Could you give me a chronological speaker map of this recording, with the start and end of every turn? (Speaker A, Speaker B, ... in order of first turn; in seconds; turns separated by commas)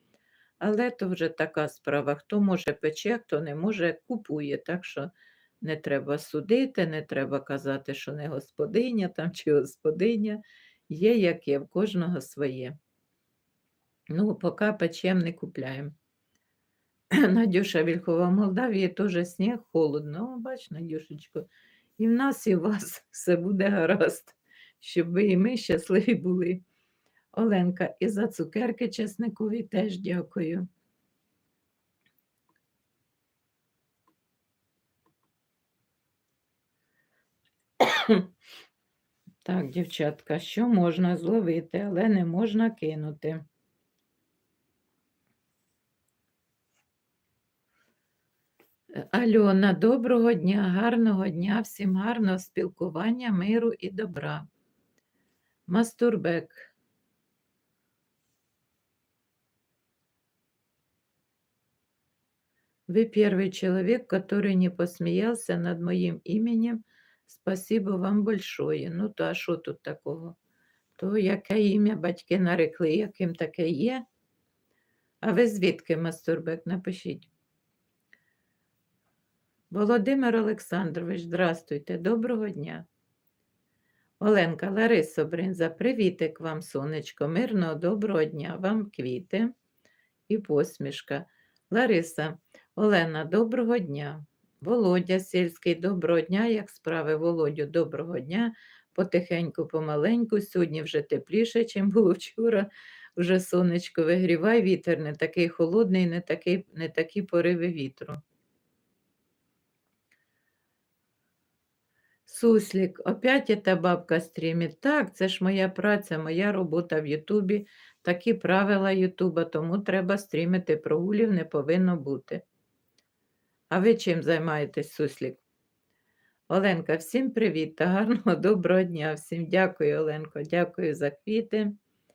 Speaker A: 0.6-12.8, Speaker A: 14.1-15.9, Speaker A: 17.1-21.5, Speaker A: 22.0-26.6, Speaker A: 27.3-30.7, Speaker A: 37.8-38.3, Speaker A: 39.5-43.5, Speaker A: 48.9-54.5, Speaker A: 55.7-56.7, Speaker A: 62.9-70.4, Speaker A: 71.0-74.0, Speaker A: 75.2-77.3, Speaker A: 79.7-82.9, Speaker A: 84.2-89.5, Speaker A: 90.3-108.2, Speaker A: 112.3-122.4, Speaker A: 123.7-125.4, Speaker A: 126.5-131.8